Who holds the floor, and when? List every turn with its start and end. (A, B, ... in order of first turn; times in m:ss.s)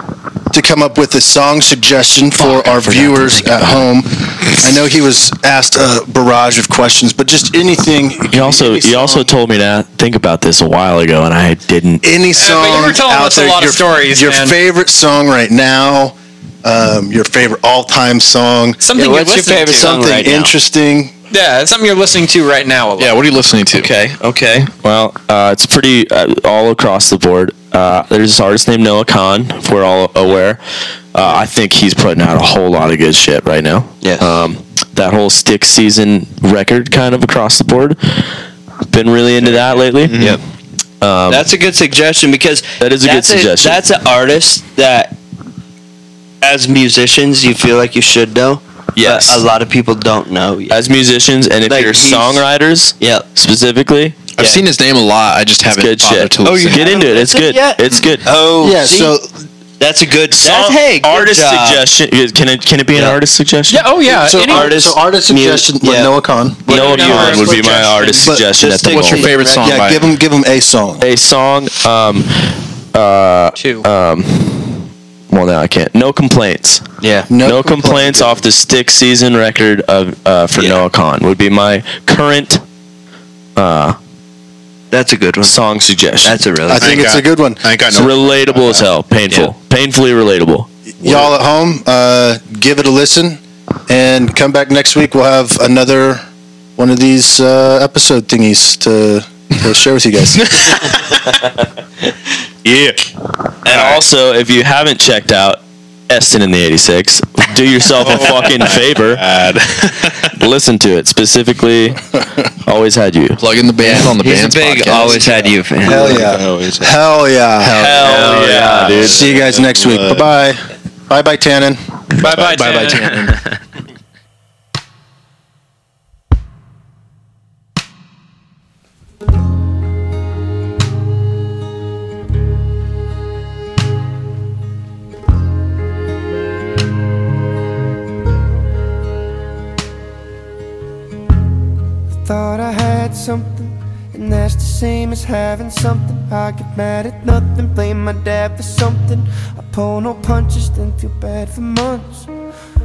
0:00.5-0:09.3 A
0:02.4-0:03.9 B
0:08.3-0:12.0 B
0:12.0-0:18.8 A
0:12.4-0:14.6 C
0:18.8-0:20.0 C
0:18.9-0:20.5 D
0:19.7-0:21.1 A
0:21.3-0:23.2 C
0:23.0-0:23.9 E
0:23.7-0:30.6 B
0:31.1-0:38.3 B
0:38.9-0:40.2 B
0:39.4-0:40.4 F
0:40.1-0:40.4 D
0:41.0-0:41.5 B
0:41.3-0:45.2 D
0:42.8-0:43.8 B
0:46.4-0:50.8 D
0:49.0-0:49.4 B
0:50.7-0:54.2 B
0:51.7-0:52.4 D
0:53.0-0:53.2 D
0:54.4-0:57.0 E
0:54.4-0:54.6 D
0:55.7-0:58.3 B
0:56.4-0:59.1 D
0:58.6-0:59.3 A
0:59.8-1:01.8 D
1:00.4-1:03.9 B
1:03.7-1:04.7 C
1:04.0-1:06.6 A
1:04.4-1:09.8 D
1:06.7-1:09.3 B
1:06.7-1:08.2 C
1:08.2-1:08.4 A
1:08.9-1:10.1 E
1:09.6-1:11.0 A
1:11.0-1:16.8 B
1:13.5-1:13.9 C
1:17.0-1:17.3 D
1:17.3-1:18.4 A
1:17.4-1:22.6 B
1:20.6-1:20.8 D
1:23.6-1:24.0 B
1:24.9-1:25.6 D
1:25.4-1:26.4 B
1:26.2-1:27.1 D
1:26.7-1:28.0 A
1:26.7-1:28.8 F
1:27.9-1:30.7 B
1:31.0-1:36.2 A
1:36.8-1:40.8 A
1:40.5-1:40.9 F
1:41.1-1:41.5 B
1:42.6-1:43.0 F
1:43.6-1:49.2 B
1:43.7-1:44.0 F
1:48.0-1:50.4 F
1:50.4-1:53.4 B
1:53.4-1:55.2 E
1:53.8-1:56.2 D
1:55.1-1:56.9 F
1:55.8-1:57.8 A
1:57.6-1:59.2 B
1:58.0-2:00.3 F
1:58.0-1:58.9 D
1:58.9-2:01.8 A
2:02.2-2:03.2 C
2:02.2-2:03.4 F
2:22.1-2:32.3 G